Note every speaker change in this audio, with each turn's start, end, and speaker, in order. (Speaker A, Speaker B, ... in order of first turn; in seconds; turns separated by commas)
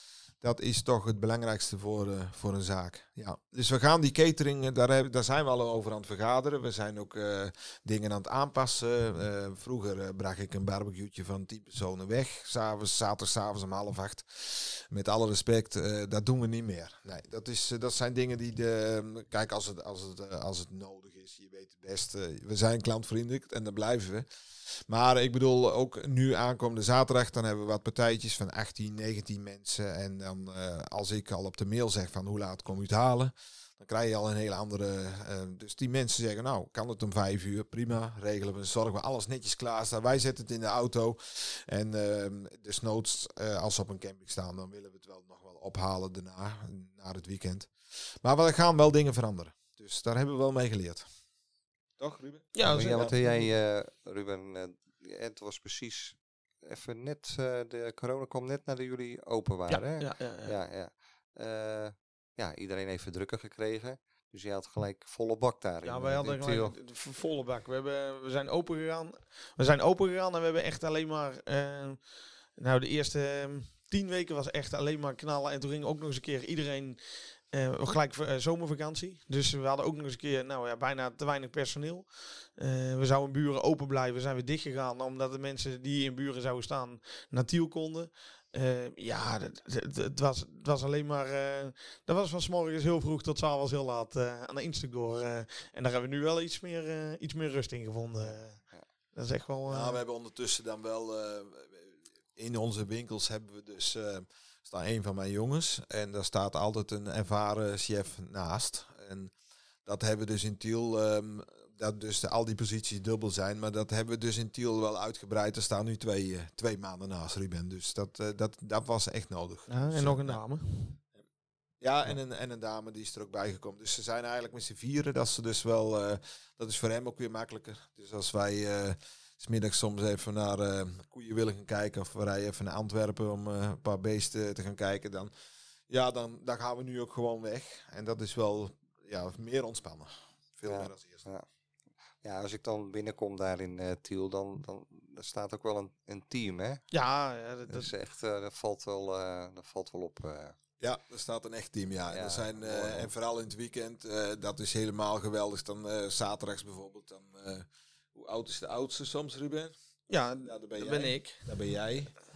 Speaker A: 0.4-51.1, Speaker A: 52.0-53.1, Speaker B: 52.5-53.5, Speaker C: 52.7-66.8, Speaker B: 59.7-60.5, Speaker B: 65.8-98.6, Speaker B: 99.1-100.0, Speaker A: 99.7-109.3, Speaker A: 109.9-120.4, Speaker B: 119.7-121.0, Speaker A: 121.8-135.3, Speaker A: 135.9-141.2, Speaker C: 140.7-141.5, Speaker C: 142.2-146.9, Speaker B: 146.9-147.9, Speaker C: 147.7-150.6, Speaker A: 150.8-159.8, Speaker C: 152.1-153.1, Speaker B: 160.1-161.4, Speaker A: 160.4-162.2